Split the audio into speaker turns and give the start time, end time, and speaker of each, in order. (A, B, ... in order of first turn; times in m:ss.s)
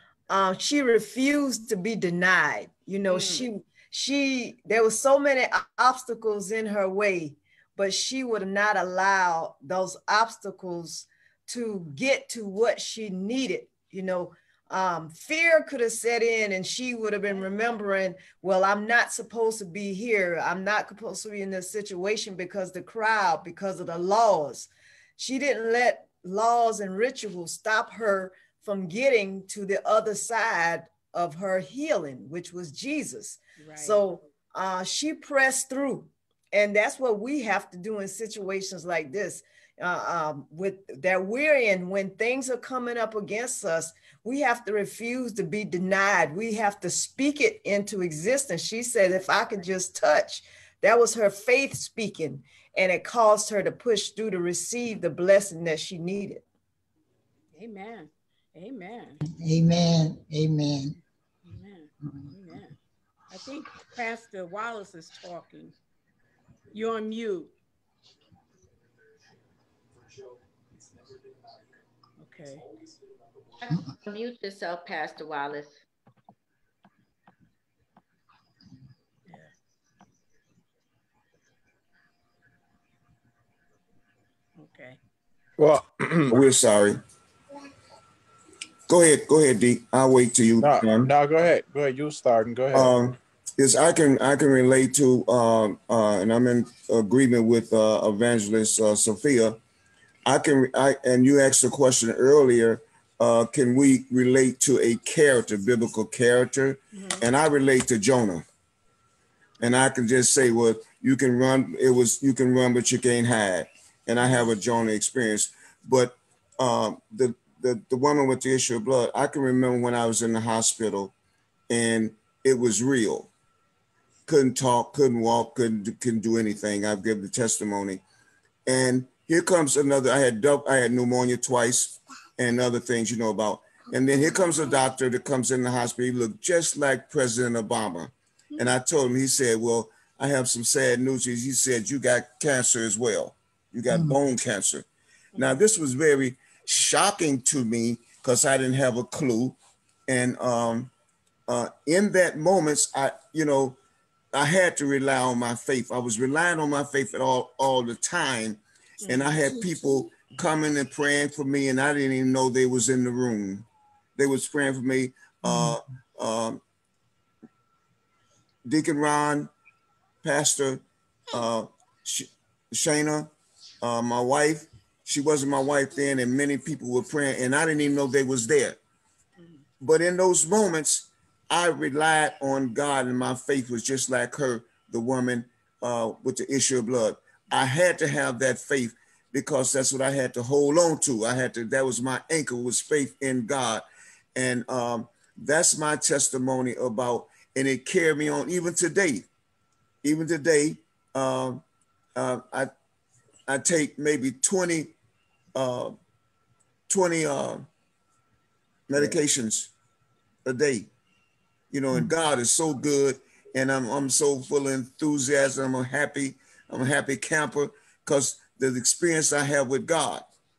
0:00.3-0:56.4 A
0:03.1-0:03.4 B
0:33.6-0:34.0 B
0:57.5-0:59.2 B
0:59.3-1:00.9 C
1:01.4-1:02.7 B
1:02.0-1:02.3 C
1:03.3-1:05.7 B
1:06.7-1:07.5 B
1:12.2-1:12.6 B
1:13.6-1:15.8 D
1:24.6-1:25.0 B
1:25.6-1:26.4 E
1:26.3-1:27.0 F
1:28.9-1:31.1 F
1:30.6-1:33.0 E
1:32.7-1:39.6 F
1:40.2-1:48.4 F
1:46.9-1:47.2 B
1:49.6-2:01.1 F
2:01.7-2:03.3 F
2:04.3-2:08.0 F
2:08.6-2:30.9 F
2:23.9-2:24.2 C
2:25.3-2:25.6 B
2:31.5-2:33.8 F
2:34.3-2:46.6 F
2:39.0-2:39.3 B
2:45.4-2:45.8 C
2:48.6-2:49.5 F
2:50.2-2:58.8 F
2:59.8-3:19.3 F
3:20.0-3:21.6 F
3:22.2-3:22.7 F
3:23.5-3:24.9 F
3:25.5-3:26.0 F
3:26.9-3:27.6 F
3:28.9-3:29.7 F
3:30.4-3:30.9 F
3:31.7-3:40.2 F